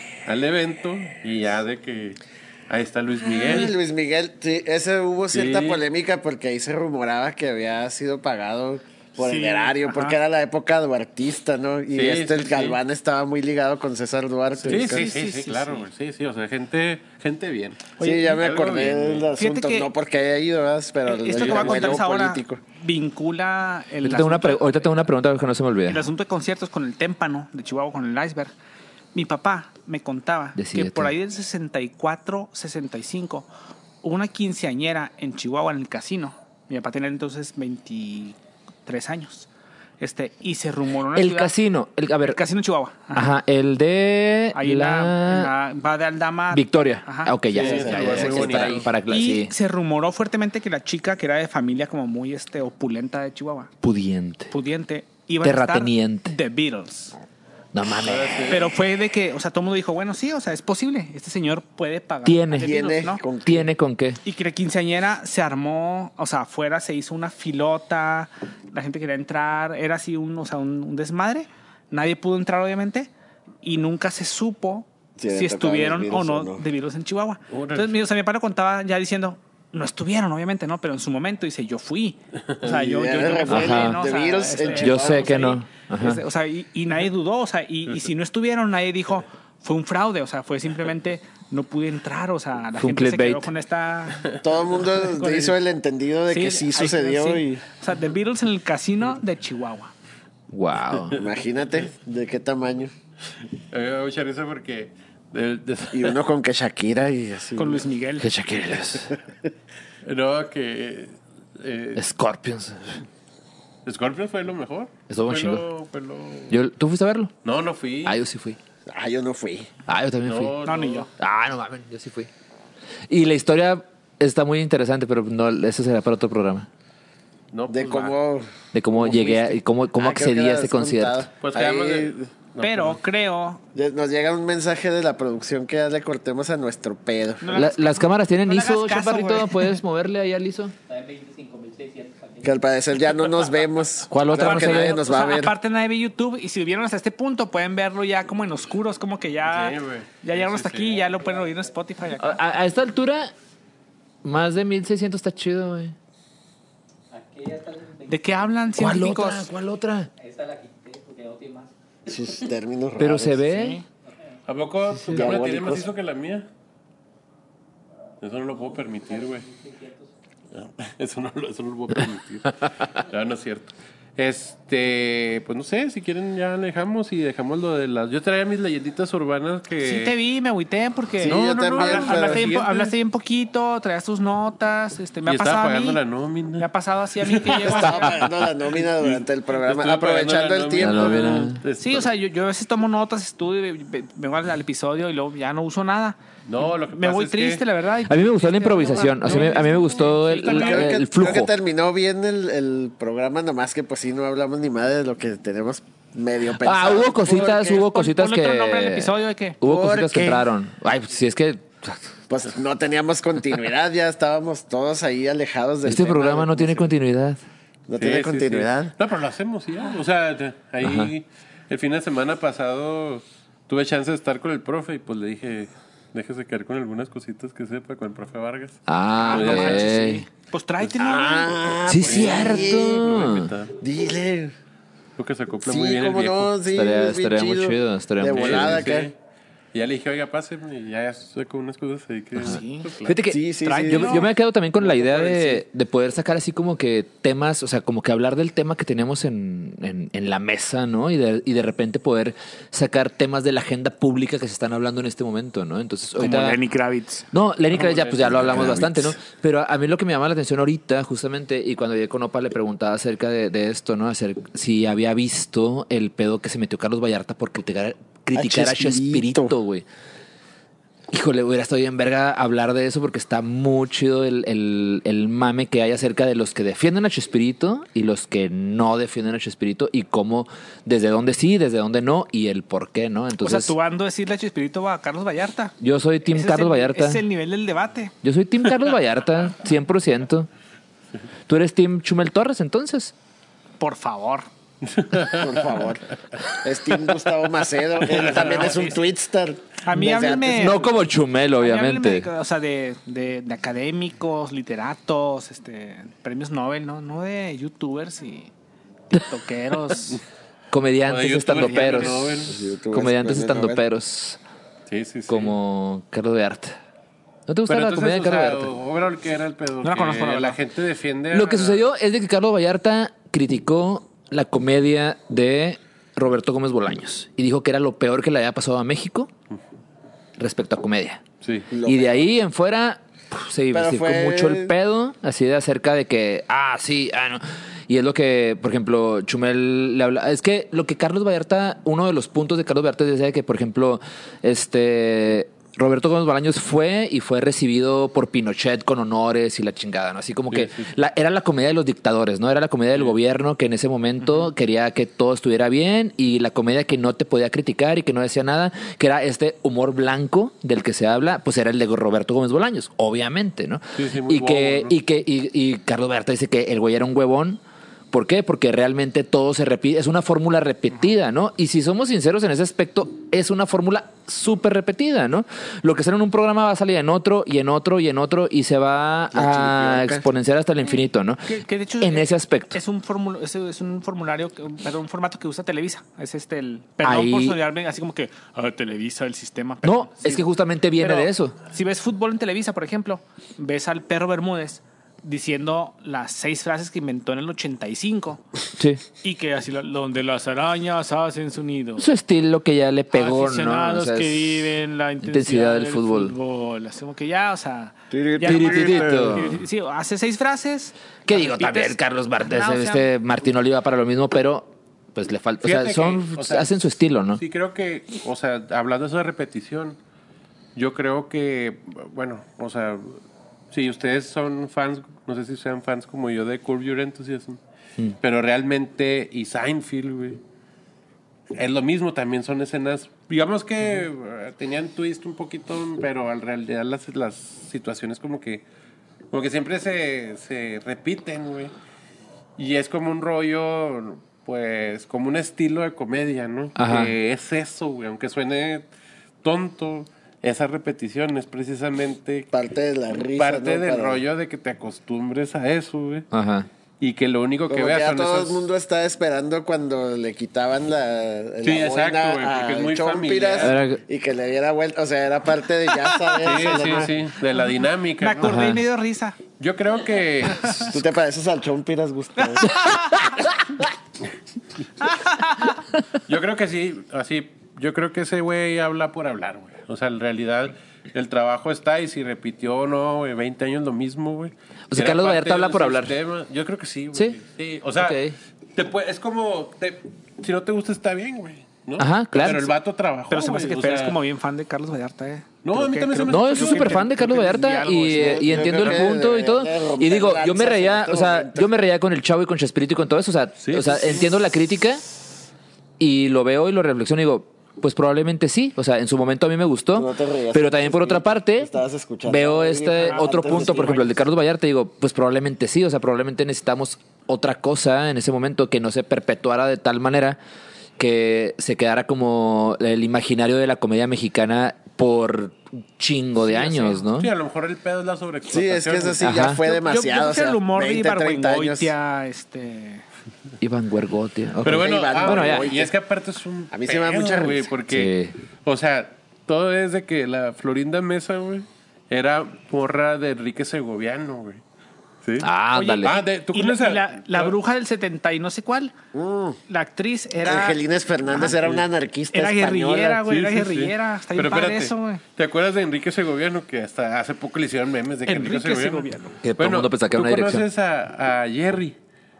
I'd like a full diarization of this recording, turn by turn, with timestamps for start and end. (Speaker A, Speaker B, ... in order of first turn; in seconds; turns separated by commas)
Speaker A: 0.2-3.8, Speaker B: 3.3-15.0, Speaker A: 5.3-5.8, Speaker C: 9.2-10.2, Speaker A: 11.9-12.8, Speaker C: 14.6-15.9, Speaker A: 14.7-19.3, Speaker C: 18.0-18.5, Speaker B: 18.0-22.6, Speaker C: 19.4-19.9, Speaker C: 21.0-24.8, Speaker A: 21.3-22.0, Speaker D: 24.0-26.1, Speaker C: 25.9-28.5, Speaker C: 29.1-33.5, Speaker D: 30.6-31.1, Speaker C: 34.0-39.5, Speaker C: 40.0-41.5, Speaker D: 41.1-42.4, Speaker C: 42.2-43.3, Speaker D: 43.1-45.5, Speaker C: 44.5-47.4, Speaker D: 46.5-49.5, Speaker A: 47.5-48.9, Speaker B: 47.5-48.8, Speaker C: 48.0-48.4, Speaker C: 49.0-53.7, Speaker D: 53.8-54.5, Speaker C: 54.5-57.1, Speaker D: 55.4-56.3, Speaker D: 57.7-58.5, Speaker A: 58.0-58.7, Speaker C: 58.5-63.2, Speaker D: 62.2-62.8, Speaker B: 62.6-63.7, Speaker D: 63.4-64.2, Speaker C: 64.2-73.1, Speaker C: 73.6-95.5, Speaker B: 75.2-76.6, Speaker A: 77.5-77.9, Speaker B: 82.6-85.5, Speaker D: 83.5-84.0, Speaker D: 84.8-86.2, Speaker D: 92.8-93.5, Speaker B: 94.4-97.6, Speaker C: 96.3-99.9, Speaker D: 100.5-101.2, Speaker B: 101.1-102.9, Speaker A: 103.7-106.2, Speaker B: 105.9-107.8, Speaker C: 107.5-108.3, Speaker D: 108.2-109.1, Speaker A: 110.0-112.0, Speaker D: 112.0-113.0, Speaker A: 113.8-116.6, Speaker D: 115.1-115.6, Speaker D: 116.5-117.3, Speaker A: 117.4-118.2, Speaker D: 118.0-118.6, Speaker B: 118.9-119.7, Speaker D: 119.9-120.5, Speaker A: 120.2-121.1, Speaker C: 120.6-121.1, Speaker D: 121.2-122.3, Speaker D: 123.1-126.7, Speaker A: 127.5-128.2, Speaker B: 127.7-132.3, Speaker D: 128.7-131.3, Speaker A: 131.4-133.0, Speaker C: 132.6-133.6, Speaker B: 133.7-137.6, Speaker C: 137.4-139.8, Speaker D: 137.5-140.7, Speaker E: 140.9-143.7, Speaker B: 142.4-145.5, Speaker D: 144.1-145.0, Speaker C: 144.3-152.4, Speaker A: 149.5-151.0, Speaker E: 151.1-151.6, Speaker D: 152.2-153.3, Speaker D: 154.2-155.9, Speaker E: 157.1-158.9, Speaker C: 158.1-159.5, Speaker D: 158.8-160.1, Speaker E: 160.2-162.3, Speaker B: 162.1-163.4, Speaker D: 163.0-163.8, Speaker C: 163.4-163.8, Speaker E: 164.0-164.4, Speaker A: 164.5-166.5, Speaker B: 165.1-165.9, Speaker D: 165.1-165.3, Speaker A: 168.2-169.4, Speaker E: 168.6-170.1, Speaker A: 170.5-180.1, Speaker C: 179.8-186.0, Speaker B: 181.2-182.5, Speaker A: 181.2-182.9, Speaker A: 185.2-186.7, Speaker C: 186.6-188.2, Speaker A: 187.2-192.1, Speaker B: 187.6-191.5, Speaker D: 190.8-191.6, Speaker C: 191.8-200.8, Speaker A: 196.5-197.6, Speaker D: 198.1-201.5, Speaker A: 199.2-200.9, Speaker B: 200.5-207.8, Speaker D: 206.6-212.1, Speaker C: 207.7-209.6, Speaker B: 209.6-210.4, Speaker B: 212.3-216.9, Speaker D: 215.8-217.4, Speaker B: 217.9-218.9, Speaker A: 218.0-229.9, Speaker D: 220.8-221.1, Speaker D: 228.9-230.2, Speaker C: 229.2-231.6, Speaker B: 231.0-233.1, Speaker D: 231.9-233.5, Speaker A: 231.9-233.7, Speaker B: 233.8-234.5, Speaker A: 235.2-236.5, Speaker B: 235.7-239.1, Speaker D: 236.7-238.9, Speaker A: 238.3-239.2, Speaker A: 239.7-243.2, Speaker D: 242.4-256.6, Speaker C: 242.4-242.9, Speaker B: 243.3-245.6, Speaker C: 243.6-244.3, Speaker C: 256.2-257.3, Speaker D: 257.3-269.8, Speaker A: 257.8-258.8, Speaker B: 258.5-258.9, Speaker B: 268.3-269.5, Speaker D: 271.1-283.7, Speaker C: 283.4-285.7, Speaker D: 285.8-287.2, Speaker C: 286.3-288.1, Speaker D: 288.2-290.5, Speaker D: 291.5-293.1, Speaker C: 293.8-294.5, Speaker A: 294.8-295.6, Speaker B: 295.3-300.9, Speaker A: 298.0-298.9, Speaker C: 298.2-299.0, Speaker C: 299.8-300.9, Speaker D: 300.5-302.3, Speaker C: 301.6-308.5, Speaker C: 309.1-310.2, Speaker D: 310.7-314.4, Speaker A: 311.0-312.6, Speaker B: 311.9-313.8, Speaker A: 314.9-315.6, Speaker D: 315.3-316.8, Speaker D: 317.5-318.7, Speaker A: 317.7-321.8, Speaker C: 319.8-320.6, Speaker D: 321.3-329.3, Speaker D: 330.4-331.2, Speaker A: 331.4-331.7, Speaker B: 331.7-332.2, Speaker D: 331.8-381.5, Speaker B: 333.7-334.7, Speaker A: 350.5-350.9, Speaker A: 363.9-364.9, Speaker B: 379.3-380.2, Speaker C: 381.5-398.4, Speaker D: 382.0-382.8, Speaker D: 387.0-387.6, Speaker D: 389.8-391.6, Speaker D: 398.8-399.0, Speaker C: 399.2-402.1, Speaker D: 402.0-406.3, Speaker C: 403.1-413.1, Speaker B: 408.1-409.6, Speaker D: 408.4-409.6, Speaker D: 411.3-417.4, Speaker A: 415.6-416.8, Speaker A: 417.4-420.0, Speaker A: 420.7-423.2, Speaker A: 423.7-427.6, Speaker A: 428.2-430.4, Speaker A: 431.6-438.6, Speaker A: 439.3-441.7, Speaker A: 442.6-448.9, Speaker D: 446.8-447.1, Speaker A: 449.4-452.5, Speaker B: 452.5-454.2, Speaker A: 453.4-456.3, Speaker D: 456.3-456.7, Speaker A: 457.0-458.7, Speaker B: 457.7-467.1, Speaker A: 461.6-463.8, Speaker D: 463.6-464.0, Speaker C: 465.9-467.1, Speaker A: 466.4-468.6, Speaker C: 468.2-469.4, Speaker D: 468.4-468.8, Speaker A: 469.6-471.0, Speaker B: 470.8-472.8, Speaker C: 472.4-473.4, Speaker C: 475.0-475.8, Speaker A: 476.3-494.2, Speaker D: 484.9-486.1, Speaker D: 487.9-488.4, Speaker D: 492.0-492.7, Speaker C: 493.3-498.6, Speaker A: 495.6-497.0, Speaker D: 496.3-505.0, Speaker B: 498.1-501.7, Speaker A: 498.8-499.1, Speaker A: 503.6-504.3, Speaker D: 506.0-511.7, Speaker B: 509.9-514.1, Speaker D: 512.2-520.4, Speaker C: 513.0-514.1, Speaker D: 521.0-527.3, Speaker A: 526.6-529.4, Speaker B: 528.5-531.9, Speaker D: 529.2-529.6, Speaker C: 529.6-533.0, Speaker D: 533.6-535.7, Speaker A: 534.6-538.1, Speaker B: 534.7-535.9, Speaker B: 536.7-537.7, Speaker D: 537.9-538.3, Speaker A: 538.6-544.6, Speaker A: 545.2-545.5, Speaker D: 545.4-546.1, Speaker C: 545.7-548.9, Speaker A: 546.0-547.5, Speaker B: 549.1-549.6, Speaker C: 549.7-550.8, Speaker B: 550.4-553.2, Speaker A: 551.3-551.8, Speaker C: 552.3-555.2, Speaker A: 553.2-562.0, Speaker C: 558.3-559.4, Speaker D: 559.4-560.6